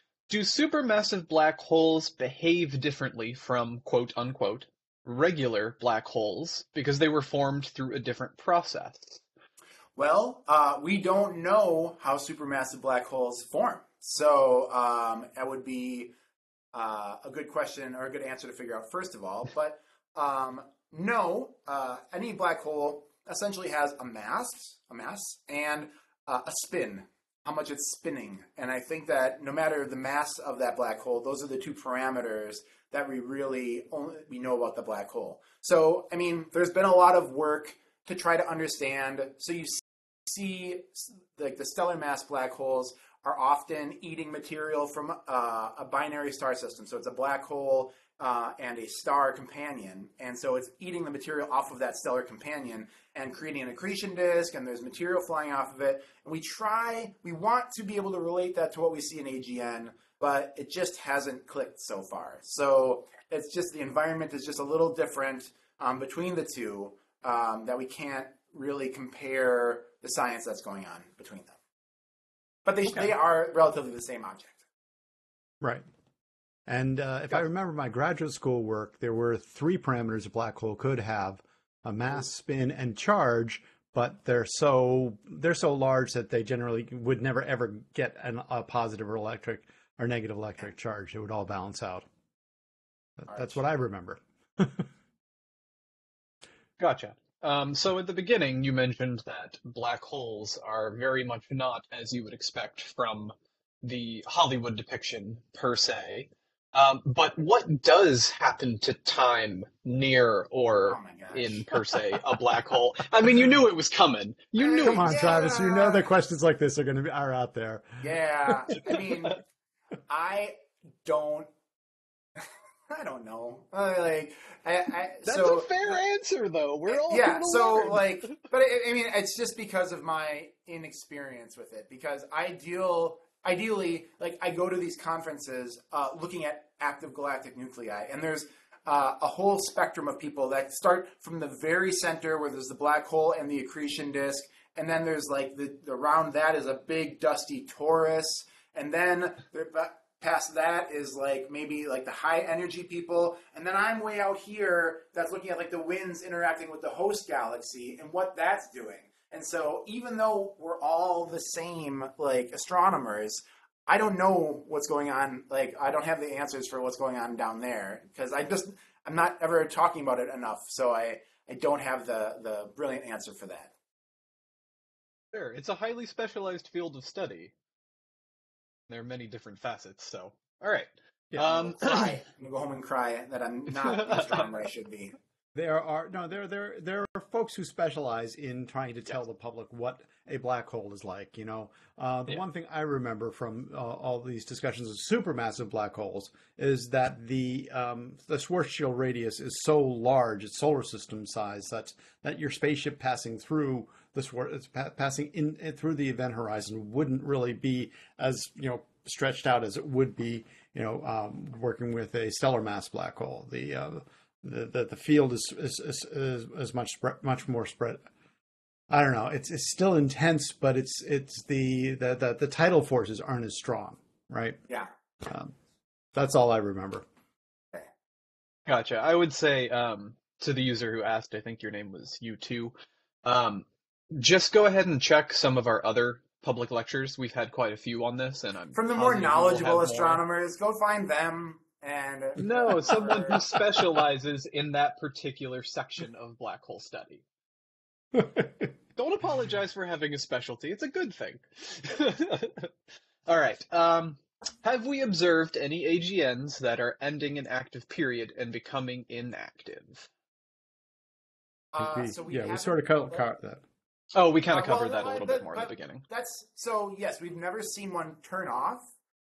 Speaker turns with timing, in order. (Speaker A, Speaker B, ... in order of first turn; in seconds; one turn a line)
Speaker A: 0.3-9.2
Speaker B: 9.9-16.1
Speaker B: 16.7-71.5
Speaker B: 72.6-74.6
Speaker C: 76.7-92.0
Speaker C: 93.2-94.9
Speaker B: 93.3-93.6
Speaker A: 96.8-115.2
Speaker B: 110.8-111.7
Speaker B: 114.6-116.0
Speaker C: 114.8-118.0
Speaker B: 118.0-119.4
Speaker B: 120.1-121.5
Speaker B: 122.4-125.7
Speaker A: 125.2-128.4
Speaker B: 126.9-173.7
Speaker A: 175.3-177.5
Speaker A: 178.9-182.2
Speaker B: 181.4-185.1
Speaker A: 183.9-184.3
Speaker C: 185.5-218.0
Speaker C: 218.9-224.7
Speaker C: 225.2-225.5
Speaker C: 226.1-227.0
Speaker A: 228.7-240.2
Speaker B: 238.7-243.4
Speaker A: 242.4-247.2
Speaker C: 248.2-248.4
Speaker A: 248.9-252.7
Speaker A: 253.2-260.1
Speaker B: 261.7-263.2
Speaker C: 261.8-263.6
Speaker A: 264.1-266.0
Speaker B: 264.5-268.8